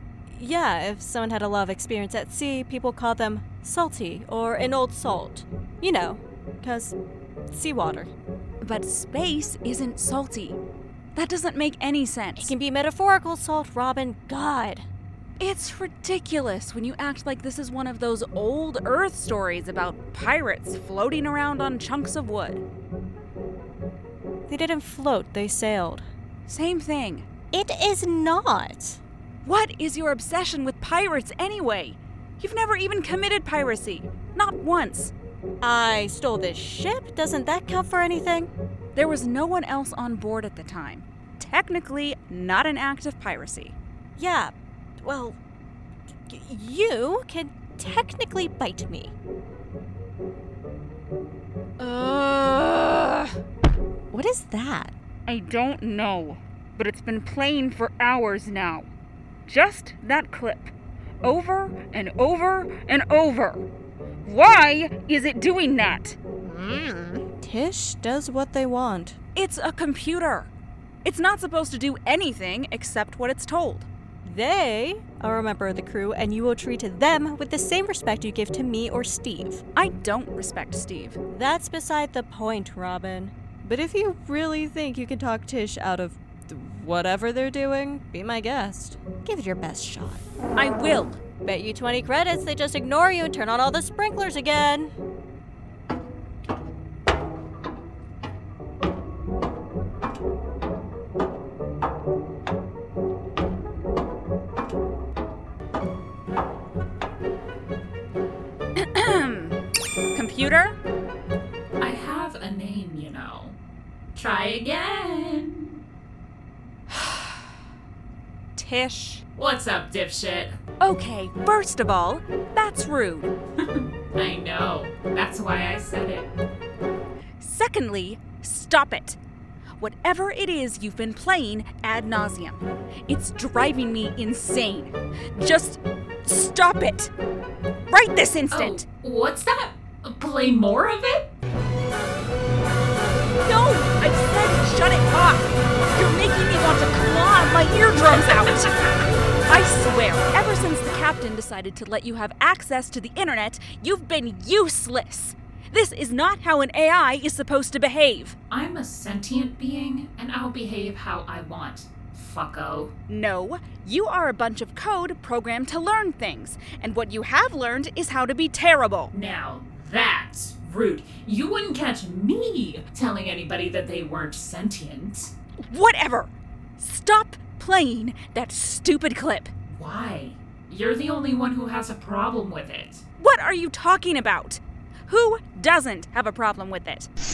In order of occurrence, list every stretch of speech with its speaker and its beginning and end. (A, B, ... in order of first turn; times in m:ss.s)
0:00.3-0:07.0 A
0:07.5-0:08.1 A
0:08.6-0:10.6 B
0:11.1-0:12.5 B
0:12.4-0:14.9 A
0:15.4-0:22.6 B
0:24.5-0:26.0 A
0:26.5-0:27.3 B
0:27.5-0:29.0 A
0:29.4-0:35.1 B
0:35.6-0:38.5 A
0:38.9-0:43.8 B
0:44.2-0:45.4 A
0:46.3-0:49.1 A
0:51.8-0:53.3 B
0:54.1-0:54.9 A
0:55.3-0:58.9 B
0:59.5-1:00.7 B
1:01.2-1:03.7 B
1:04.2-1:06.2 B
1:06.5-1:09.2 A
1:09.3-1:10.5 B
1:11.0-1:13.9 B
1:14.2-1:19.6 A
1:19.8-1:21.2 B
1:21.3-1:30.2 A
1:30.6-1:31.2 B
1:31.4-1:34.9 A
1:48.8-1:49.6 B
1:50.1-1:50.8 B
1:51.8-1:53.6 C
1:54.1-1:55.8 C
1:56.9-1:57.4 B
1:58.6-1:59.2 B
1:59.4-2:00.5 C
2:00.8-2:03.3 B
2:03.7-2:06.3 C
2:07.4-2:09.2 B
2:09.8-2:17.1 B
2:17.9-2:18.8 B
2:18.5-2:21.3 C
2:23.4-2:28.8 B
2:29.5-2:38.4 B
2:38.5-2:42.9 C
2:43.1-2:49.1 B
2:49.1-2:55.3 C
2:55.7-2:59.5 B
2:59.7-3:03.0 C
3:03.2-3:07.1 B